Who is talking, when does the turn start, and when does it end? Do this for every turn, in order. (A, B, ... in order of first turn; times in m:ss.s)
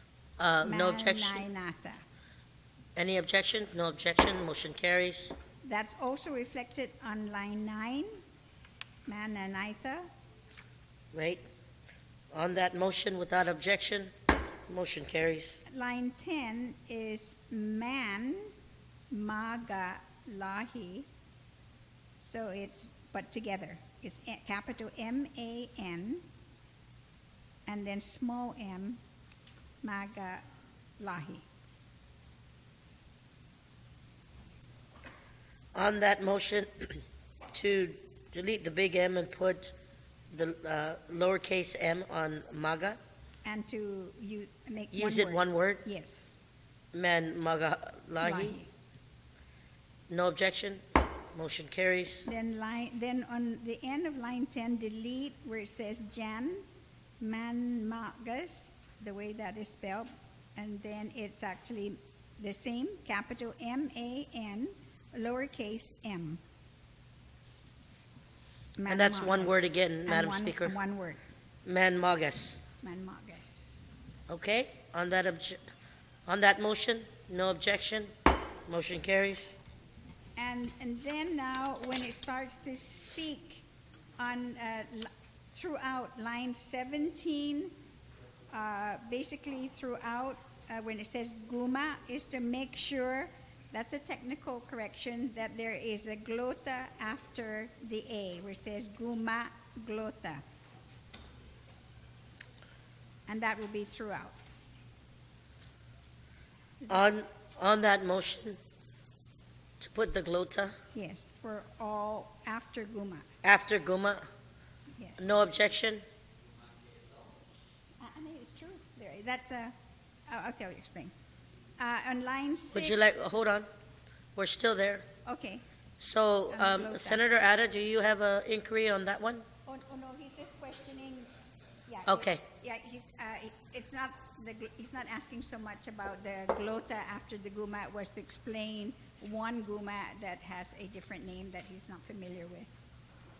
0:00.4-0:01.4 A
0:00.6-0:02.0 B
0:03.0-0:05.3 A
0:05.6-0:08.1 B
0:09.1-0:10.1 B
0:11.1-0:11.4 A
0:12.3-0:14.1 A
0:14.7-0:15.6 A
0:15.7-0:18.5 B
0:19.1-0:21.1 B
0:22.2-0:26.2 B
0:27.7-0:29.0 B
0:29.8-0:30.4 B
0:31.0-0:31.4 B
0:35.7-0:39.7 A
0:40.3-0:43.0 A
0:43.4-0:46.3 B
0:44.9-0:45.8 A
0:46.9-0:48.6 A
0:48.2-0:48.7 B
0:50.1-0:50.8 A
0:51.3-0:52.2 A
0:52.2-0:56.6 B
0:57.2-1:06.4 B
1:08.8-1:11.2 B
1:08.9-1:10.8 A
1:11.6-1:12.6 A
1:12.8-1:13.8 B
1:14.3-1:15.6 A
1:16.3-1:18.1 A
1:18.7-1:19.6 A
1:20.4-1:23.7 B
1:24.2-1:27.7 B
1:28.5-1:40.4 B
1:43.3-1:44.4 B
1:46.9-1:48.6 A
1:49.8-1:50.8 A
1:50.9-1:53.3 B
1:53.4-1:54.2 A
1:55.0-1:55.4 B
1:55.2-1:56.0 A
1:58.0-1:59.7 B
2:00.3-2:01.1 B
2:01.8-2:03.2 B
2:02.7-2:03.7 A
2:04.4-2:05.1 A
2:05.2-2:05.6 B
2:06.0-2:09.4 A
2:06.5-2:07.2 B
2:09.7-2:11.3 B
2:11.9-2:22.8 B
2:12.1-2:12.4 A